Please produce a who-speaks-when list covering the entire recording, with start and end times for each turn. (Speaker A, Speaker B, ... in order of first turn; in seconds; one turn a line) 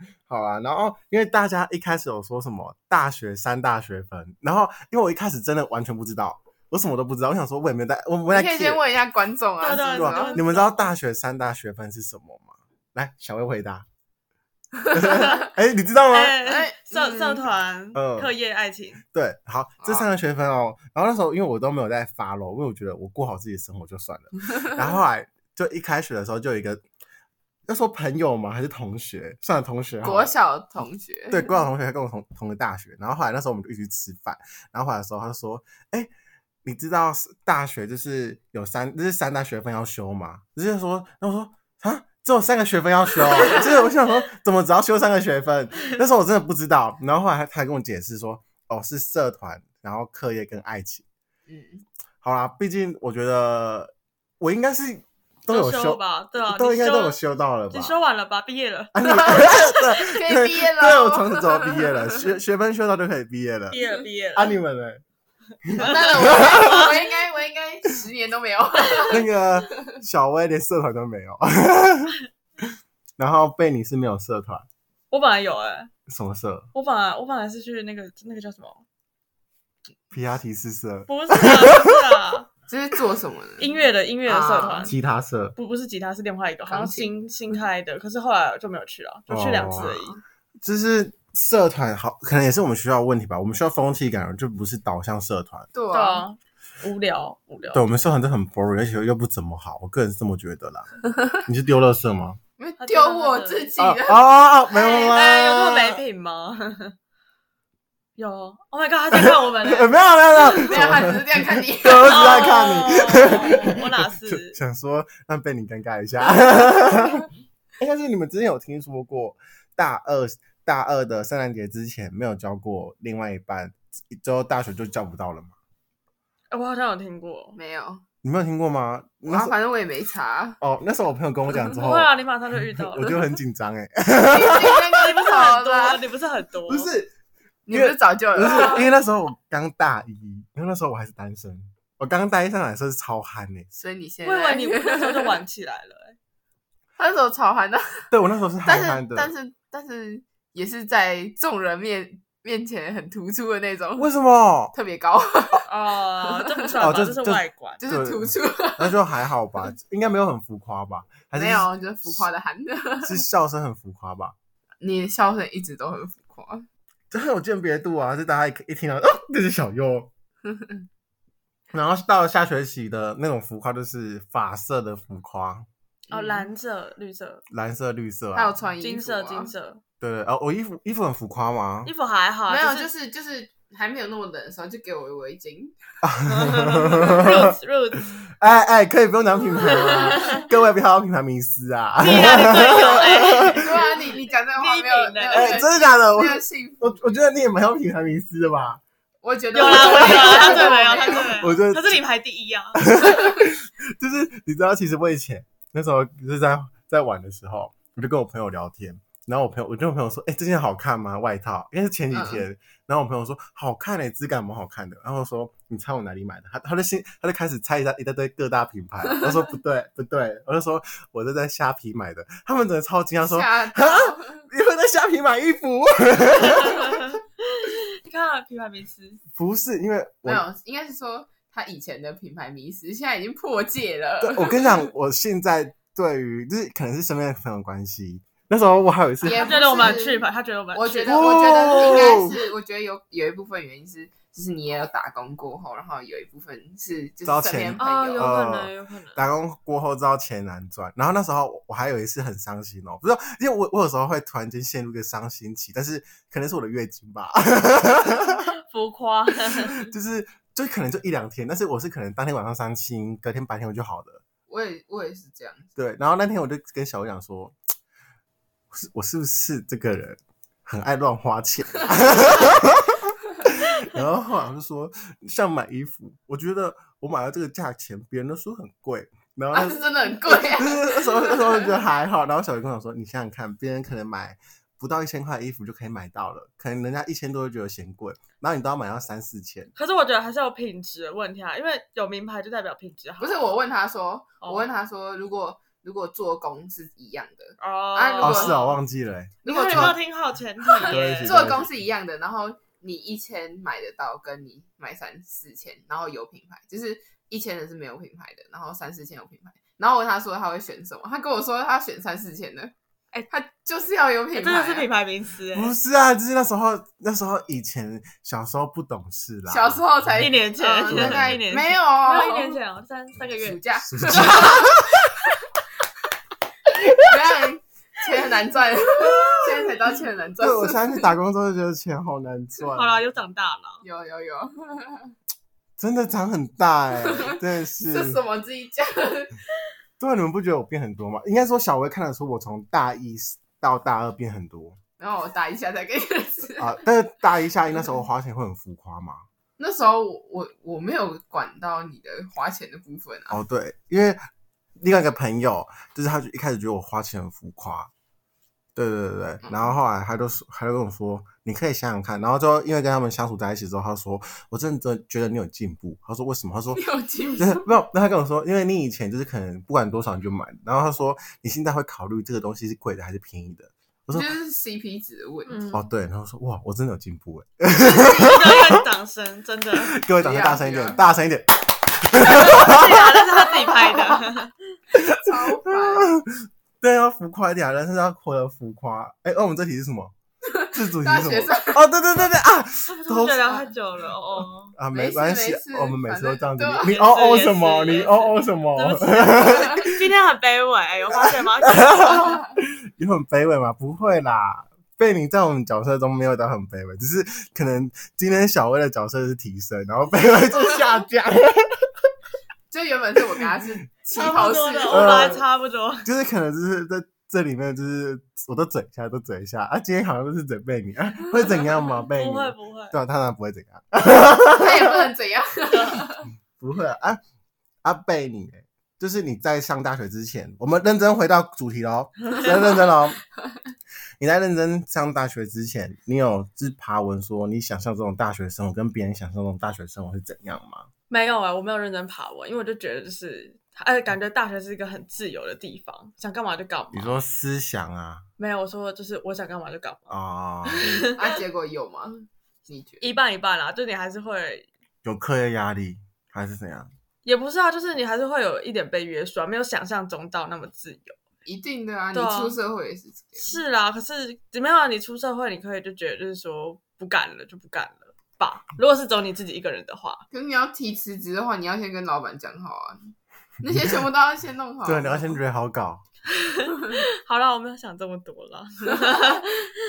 Speaker A: 0.3-8.8
Speaker B: 8.3-10.4
Speaker C: 9.6-10.9
Speaker A: 10.0-13.9
Speaker B: 14.9-15.5
Speaker A: 14.9-16.4
Speaker C: 16.1-19.0
Speaker B: 16.4-17.4
Speaker A: 17.9-18.3
Speaker A: 19.1-26.8
Speaker B: 19.8-20.1
Speaker A: 27.7-30.3
Speaker B: 30.0-31.6
Speaker A: 31.3-36.1
Speaker A: 36.6-51.0
Speaker B: 51.5-51.9
Speaker A: 52.2-58.0
Speaker C: 55.5-57.2
Speaker C: 57.7-59.4
Speaker A: 58.9-63.8
Speaker B: 59.0-62.2
Speaker C: 63.7-64.6
Speaker A: 64.3-65.0
Speaker A: 65.7-66.9
Speaker B: 65.8-69.2
Speaker C: 65.8-67.0
Speaker A: 69.1-72.2
Speaker A: 73.2-74.7
Speaker C: 75.1-75.9
Speaker A: 76.1-76.7
Speaker C: 76.7-78.8
Speaker A: 80.1-82.0
Speaker C: 81.1-82.5
Speaker B: 82.7-83.7
Speaker C: 83.6-85.0
Speaker B: 84.3-84.9
Speaker A: 84.9-85.5
Speaker C: 85.6-90.2
Speaker B: 86.7-87.6
Speaker A: 89.3-90.0
Speaker A: 90.6-95.7
Speaker B: 95.7-96.3
Speaker C: 95.9-97.8
Speaker A: 97.7-100.9
Speaker A: 101.5-102.4
Speaker B: 102.6-105.2
Speaker C: 102.8-103.7
Speaker A: 103.8-106.0
Speaker C: 104.7-107.0
Speaker C: 108.2-110.8
Speaker A: 109.1-117.3
Speaker B: 110.7-112.5
Speaker C: 111.9-114.6
Speaker A: 117.8-125.5
Speaker C: 126.5-127.6
Speaker B: 127.6-128.0
Speaker A: 128.2-129.5
Speaker B: 129.2-130.6
Speaker A: 130.6-132.1
Speaker C: 131.7-133.2
Speaker A: 132.8-134.8
Speaker B: 134.3-136.0
Speaker C: 135.0-136.9
Speaker A: 136.7-137.1
Speaker B: 137.7-138.9
Speaker A: 137.7-143.7
Speaker B: 143.7-145.4
Speaker C: 144.2-146.2
Speaker B: 147.0-148.1
Speaker A: 148.1-149.3
Speaker B: 148.7-154.1
Speaker A: 154.0-154.7
Speaker B: 154.7-155.7
Speaker C: 155.7-157.8
Speaker B: 156.2-156.7
Speaker A: 156.8-162.2
Speaker B: 157.8-159.0
Speaker B: 161.3-163.2
Speaker A: 163.0-164.3
Speaker B: 164.8-166.7
Speaker A: 167.1-170.1
Speaker B: 170.4-170.9
Speaker A: 171.7-175.7
Speaker B: 176.1-176.5
Speaker C: 176.1-177.4
Speaker A: 177.5-178.6
Speaker B: 178.3-179.5
Speaker C: 178.8-179.8
Speaker A: 180.0-181.9
Speaker C: 181.8-182.9
Speaker B: 182.5-185.8
Speaker A: 186.0-187.6
Speaker C: 186.3-188.2
Speaker A: 188.4-193.6
Speaker C: 189.9-190.4
Speaker C: 192.0-195.6
Speaker B: 192.8-197.2
Speaker A: 195.3-198.8
Speaker B: 199.2-201.4
Speaker C: 199.5-203.0
Speaker A: 199.9-202.0
Speaker A: 202.8-227.1
Speaker B: 212.1-212.4
Speaker B: 223.2-224.5
Speaker C: 226.4-229.2
Speaker A: 229.3-230.4
Speaker B: 230.2-234.7
Speaker A: 234.2-239.9
Speaker B: 239.2-248.3
Speaker C: 239.2-242.0
Speaker A: 241.1-242.3
Speaker A: 247.2-258.5
Speaker C: 247.8-249.2
Speaker C: 258.3-259.9
Speaker A: 259.5-264.2
Speaker B: 264.5-265.7
Speaker A: 265.8-267.6
Speaker A: 268.7-289.7
Speaker B: 279.5-281.8
Speaker C: 289.8-293.6
Speaker B: 293.2-298.6
Speaker C: 297.6-298.8
Speaker A: 298.2-300.0
Speaker B: 299.4-300.0
Speaker C: 299.5-301.5
Speaker B: 300.6-312.7
Speaker A: 300.9-301.8
Speaker B: 313.3-314.9
Speaker C: 314.4-315.7
Speaker A: 315.5-320.3
Speaker B: 319.5-322.6
Speaker C: 320.2-324.6
Speaker A: 320.9-321.4
Speaker B: 323.4-325.1
Speaker A: 323.9-325.1
Speaker B: 327.0-331.1
Speaker A: 329.1-329.5
Speaker A: 330.4-333.0
Speaker C: 332.7-333.8
Speaker B: 333.8-335.1
Speaker A: 335.8-338.2
Speaker B: 337.0-339.4
Speaker A: 340.0-344.8
Speaker B: 345.0-346.8
Speaker A: 346.6-349.2
Speaker B: 349.6-353.4
Speaker A: 353.3-354.2
Speaker A: 354.8-357.9
Speaker A: 358.8-366.8
Speaker B: 359.4-359.8
Speaker B: 366.7-367.7
Speaker A: 367.4-374.3
Speaker B: 374.1-375.7
Speaker C: 375.5-375.9
Speaker A: 375.7-378.8
Speaker C: 377.8-380.0
Speaker A: 379.8-384.2
Speaker B: 380.2-381.0
Speaker C: 382.2-384.5
Speaker A: 384.9-390.1
Speaker B: 385.0-386.1
Speaker B: 390.5-391.8
Speaker A: 390.7-393.7
Speaker C: 392.9-394.8
Speaker A: 394.8-400.1
Speaker B: 394.9-397.0
Speaker C: 396.9-402.4
Speaker A: 401.1-411.9
Speaker B: 402.1-402.5
Speaker B: 412.7-415.4
Speaker C: 414.1-416.1
Speaker A: 414.9-415.4
Speaker A: 416.0-424.9
Speaker C: 421.8-422.9
Speaker B: 424.5-426.3
Speaker C: 425.7-426.1
Speaker A: 426.6-427.2
Speaker A: 427.8-433.2
Speaker A: 434.2-440.9
Speaker C: 441.1-447.1
Speaker A: 446.9-448.2
Speaker C: 448.4-450.1
Speaker A: 450.1-451.0
Speaker C: 450.6-451.4
Speaker B: 450.8-453.1
Speaker C: 453.0-454.7
Speaker A: 455.1-456.9
Speaker C: 457.2-461.2
Speaker B: 461.4-463.6
Speaker C: 462.1-462.6
Speaker C: 463.4-470.2
Speaker B: 470.3-473.1
Speaker B: 473.6-475.4
Speaker A: 474.9-476.0
Speaker C: 476.3-479.7
Speaker B: 478.9-479.4